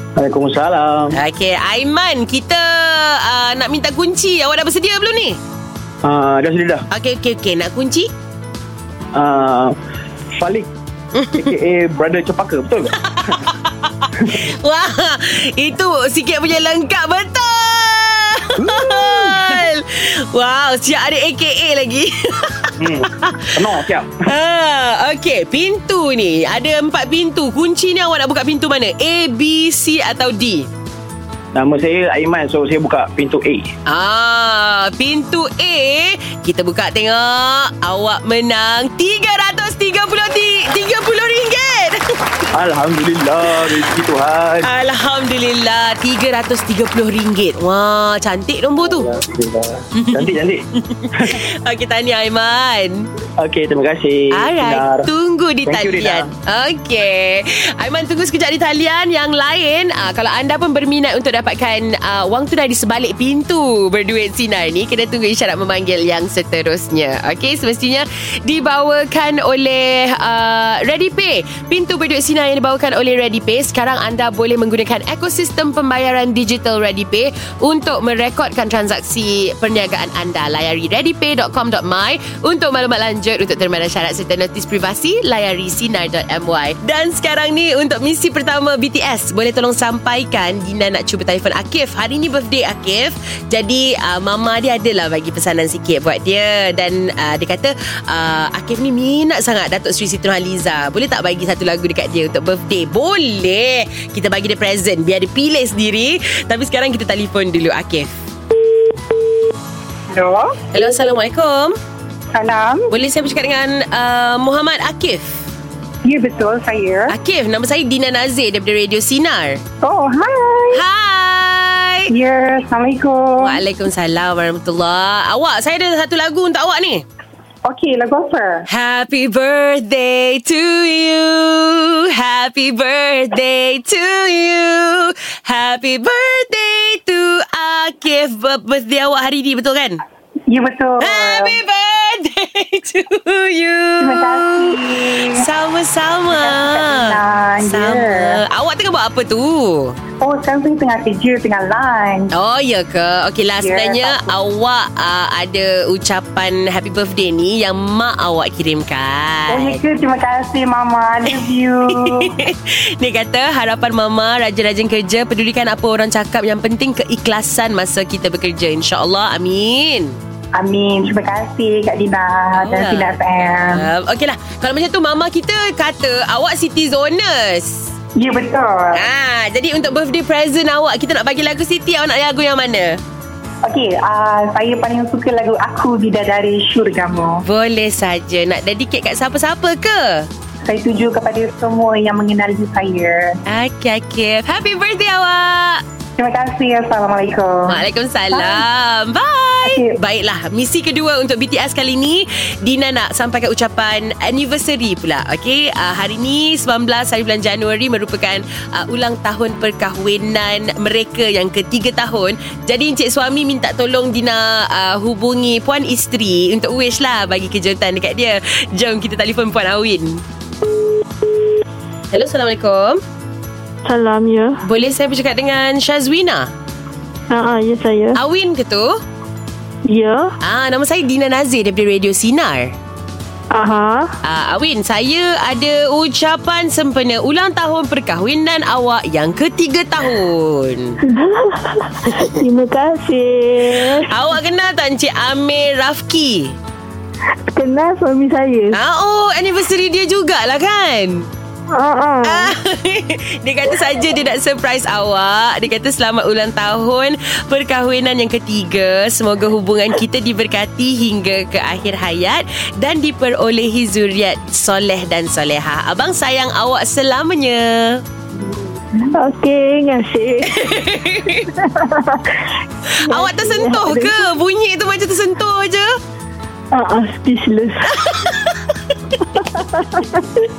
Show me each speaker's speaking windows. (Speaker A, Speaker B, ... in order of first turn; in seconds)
Speaker A: 0.2-1.2, 6.0-6.8, 9.1-9.8, 10.4-10.7, 11.3-12.9, 18.6-19.6, 22.8-24.2, 31.5-33.7, 42.5-44.7, 48.9-50.6, 53.4-55.1, 55.7-56.3
Speaker B: 1.1-5.4, 6.9-8.1, 11.2-11.4, 13.1-23.5, 24.2-30.7, 33.9-42.0, 44.6-49.1, 50.0-53.0, 54.3-108.1, 110.7-111.7, 112.9-115.4, 117.1-119.6, 120.7-122.1, 123.4-127.0, 128.7-140.0, 141.0-150.0, 152.3-159.8, 162.1-170.2, 172.6-177.9, 178.9-183.0, 187.4-190.3, 193.5-195.8, 197.7-220.2, 222.1-223.0, 224.6-226.5, 228.2-228.9, 230.4-232.7, 234.2-241.0, 244.0-246.6, 248.7-251.3, 252.2-268.0, 270.4-271.5, 273.0-275.9, 277.9-278.6
Speaker C: 110.1-110.5, 112.3-112.9, 116.0-117.1, 119.8-120.8, 122.1-123.6, 127.7-128.7, 140.5-141.6, 144.0-145.5, 146.3-148.4, 150.2-152.3, 153.6-154.3, 159.5-162.3, 170.5-173.9, 178.2-179.0, 183.6-187.4, 190.7-193.4, 196.2-197.8, 198.3-198.6, 199.6-200.0
Speaker D: 223.8-224.6, 227.3-228.2, 229.9-230.3, 233.5-234.1, 241.0-244.1, 247.5-248.8, 251.7-252.5, 269.0-270.6, 271.6-272.3, 273.1-274.3, 276.7-277.8, 279.5-280.3